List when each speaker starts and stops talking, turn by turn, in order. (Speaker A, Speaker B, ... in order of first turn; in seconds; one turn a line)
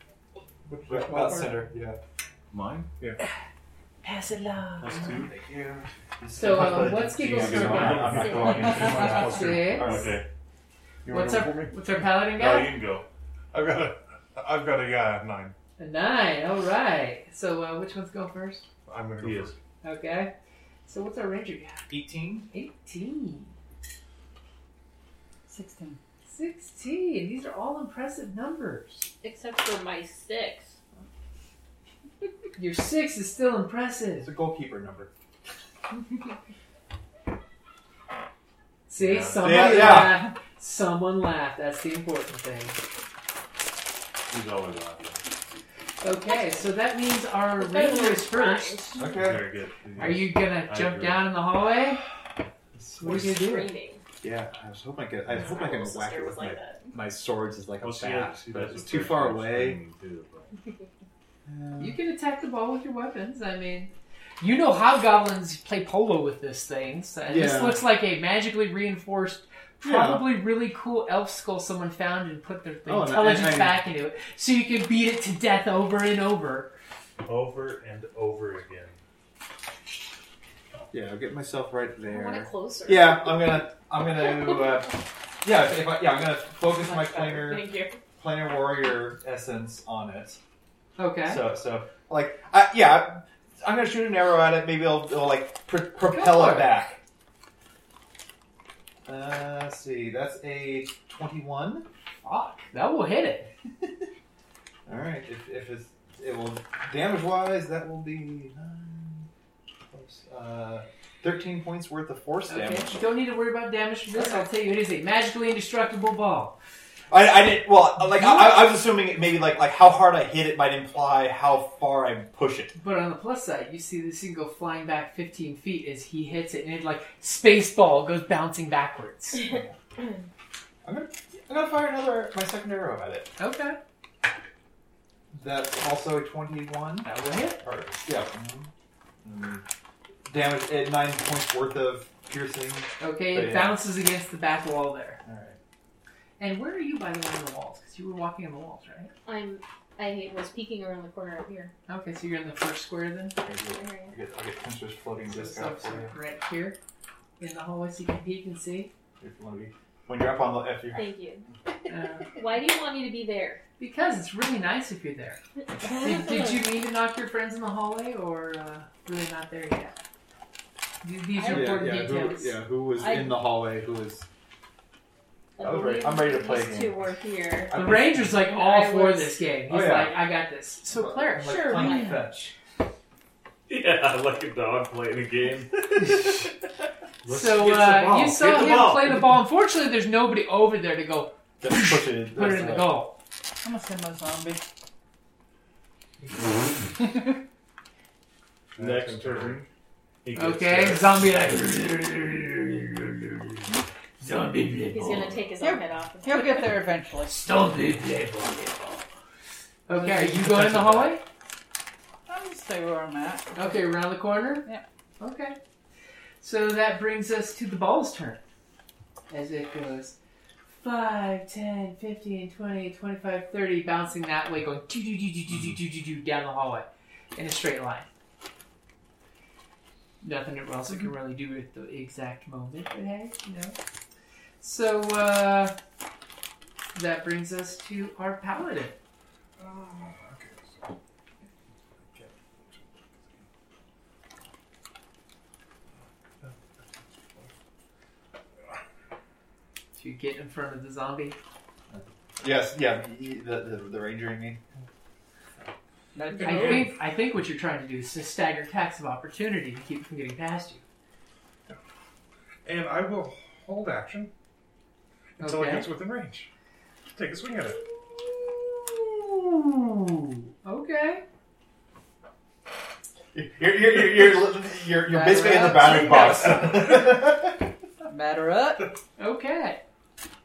Speaker A: 0.7-1.6
Speaker B: 0.9-2.0
Speaker C: 2.5-2.9
Speaker D: 4.0-5.1
Speaker C: 4.8-5.3
Speaker B: 5.1-10.2
Speaker D: 6.3-10.0
Speaker C: 7.3-10.2
Speaker A: 7.7-9.9
Speaker E: 8.2-9.0
Speaker A: 11.0-12.1
Speaker D: 11.1-12.7
Speaker C: 12.3-13.1
Speaker A: 13.5-15.5
Speaker D: 15.8-18.6
Speaker A: 18.9-19.6
Speaker C: 19.2-19.5
Speaker D: 19.8-20.3
Speaker D: 20.9-21.9
Speaker B: 21.9-22.5
Speaker D: 22.5-23.5
Speaker F: 25.5-26.0
Speaker D: 26.3-29.1
Speaker E: 29.2-30.8
Speaker D: 32.5-34.3
Speaker B: 34.2-35.1
Speaker D: 38.9-42.8
Speaker C: 39.0-40.1
Speaker B: 39.4-40.3
Speaker C: 44.3-45.4
Speaker D: 46.0-49.0
Speaker E: 47.6-49.0
Speaker B: 49.0-49.5
Speaker C: 49.1-51.3
Speaker D: 50.0-52.0
Speaker B: 52.7-53.3
Speaker D: 53.0-53.7
Speaker E: 53.0-54.0
Speaker B: 54.2-59.8
Speaker E: 55.3-56.9
Speaker C: 57.8-60.5
Speaker B: 61.5-62.0
Speaker D: 61.8-76.7
Speaker B: 67.3-67.8
Speaker B: 69.8-70.3
Speaker B: 72.8-73.8
Speaker C: 77.2-79.0
Speaker B: 80.9-90.4
Speaker E: 82.0-83.6
Speaker E: 86.8-88.0
Speaker D: 91.0-91.4
Speaker B: 91.2-97.0
Speaker D: 96.1-96.7
Speaker B: 99.0-101.8
Speaker D: 102.2-103.5
Speaker B: 104.8-109.3
Speaker B: 109.9-113.0
Speaker D: 112.5-116.5
Speaker B: 114.1-114.5
Speaker B: 117.1-122.7
Speaker D: 118.1-118.5
Speaker D: 122.7-129.5
Speaker B: 129.4-129.8
Speaker B: 130.8-133.3
Speaker D: 133.4-133.8
Speaker B: 135.3-138.7
Speaker D: 137.0-137.6
Speaker B: 139.2-139.6
Speaker B: 140.3-143.8
Speaker D: 143.0-145.2
Speaker B: 145.2-145.6
Speaker D: 146.4-149.1
Speaker E: 149.2-151.7
Speaker D: 151.9-153.4
Speaker B: 153.4-156.1
Speaker E: 153.6-154.1
Speaker D: 155.2-156.8
Speaker D: 157.4-158.9
Speaker B: 159.2-161.1
Speaker E: 160.9-161.5
Speaker D: 161.9-162.3
Speaker E: 162.3-163.6
Speaker D: 163.8-169.9
Speaker E: 165.8-166.3
Speaker D: 171.0-172.6
Speaker E: 171.3-172.1
Speaker B: 171.5-174.2
Speaker E: 172.9-173.4
Speaker E: 175.6-177.8
Speaker B: 175.6-177.0
Speaker B: 177.7-178.4
Speaker D: 177.7-182.4
Speaker E: 178.3-179.4
Speaker B: 179.7-180.2
Speaker B: 180.9-182.5
Speaker E: 181.4-182.2
Speaker C: 183.7-186.4
Speaker C: 187.2-189.4
Speaker D: 187.3-193.2
Speaker B: 191.6-193.0
Speaker F: 193.6-194.6
Speaker A: 198.8-199.6
Speaker C: 198.8-199.7
Speaker C: 200.2-201.2
Speaker D: 200.3-203.6
Speaker D: 204.2-205.3
Speaker E: 204.9-206.8
Speaker F: 205.6-207.5
Speaker D: 207.3-208.8
Speaker F: 208.6-208.9
Speaker D: 209.9-211.2
Speaker F: 209.9-210.4
Speaker F: 212.3-213.9
Speaker D: 213.5-214.7
Speaker D: 215.2-215.6
Speaker D: 216.4-218.4
Speaker D: 219.3-220.2
Speaker D: 220.7-228.1
Speaker D: 230.2-233.8
Speaker D: 234.6-235.8
Speaker D: 236.9-239.0
Speaker A: 239.6-240.9
Speaker A: 242.1-243.4
Speaker A: 246.4-247.5
Speaker D: 249.9-251.4
Speaker B: 251.9-254.6
Speaker F: 256.1-256.9
Speaker D: 256.4-260.8
Speaker A: 262.6-264.3
Speaker D: 265.4-265.9
Speaker A: 265.4-266.5
Speaker A: 267.1-267.8
Speaker D: 268.1-271.2
Speaker B: 273.3-277.6
Speaker F: 275.0-277.2
Speaker F: 278.1-278.9
Speaker D: 279.2-279.8